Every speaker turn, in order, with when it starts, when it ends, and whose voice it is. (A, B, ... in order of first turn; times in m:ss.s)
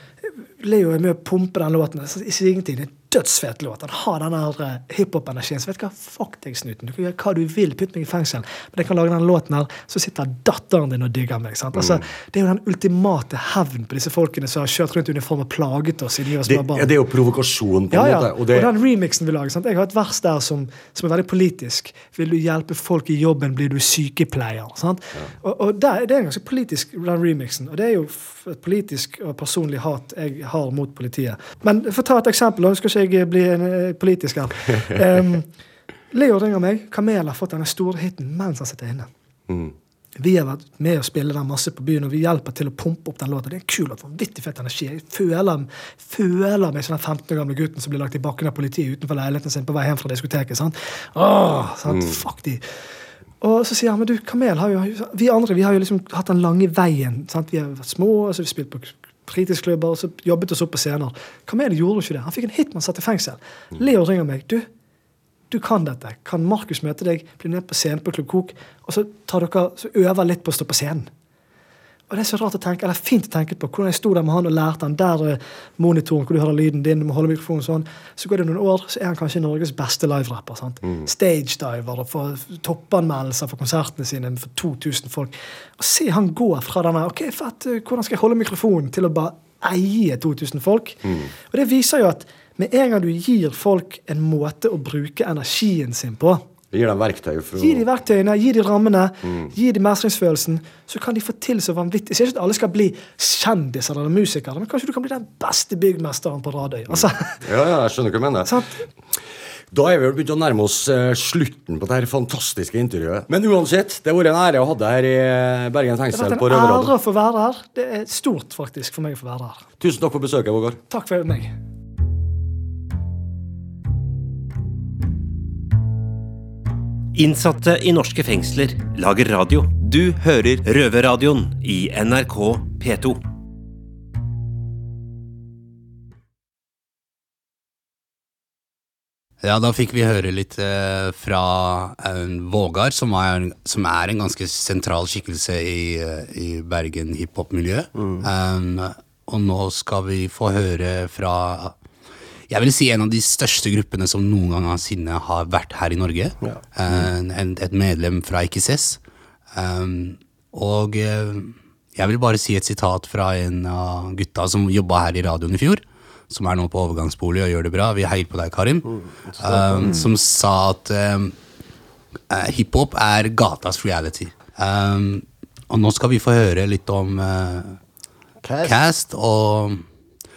0:00.6-0:16.9 A
0:16.4-0:18.7 B
0:17.9-0:35.5 A
0:36.1-0:39.1 A
0:39.5-0:39.7 B
0:40.2-0:52.6 A
0:51.9-0:52.2 B
0:53.4-1:04.6 A
1:05.5-1:11.1 A
1:12.1-1:36.4 A
1:20.8-1:21.1 B
1:31.0-1:31.3 B
1:36.7-1:37.8 B
1:37.6-1:47.4 A
1:39.2-1:39.5 B
1:46.9-1:48.5 B
1:48.4-1:48.8 A
1:49.7-1:56.9 B
1:56.1-1:59.6 A
1:59.8-2:00.8 B
2:00.9-2:01.5 A
2:07.1-2:13.2 C
2:19.4-2:31.8 D
2:27.9-2:28.2 E
2:32.5-2:39.0 D
2:39.5-2:51.3 D
2:48.8-2:50.0 E
2:52.3-2:57.8 D
2:58.4-2:58.8 E
2:58.6-2:59.8 D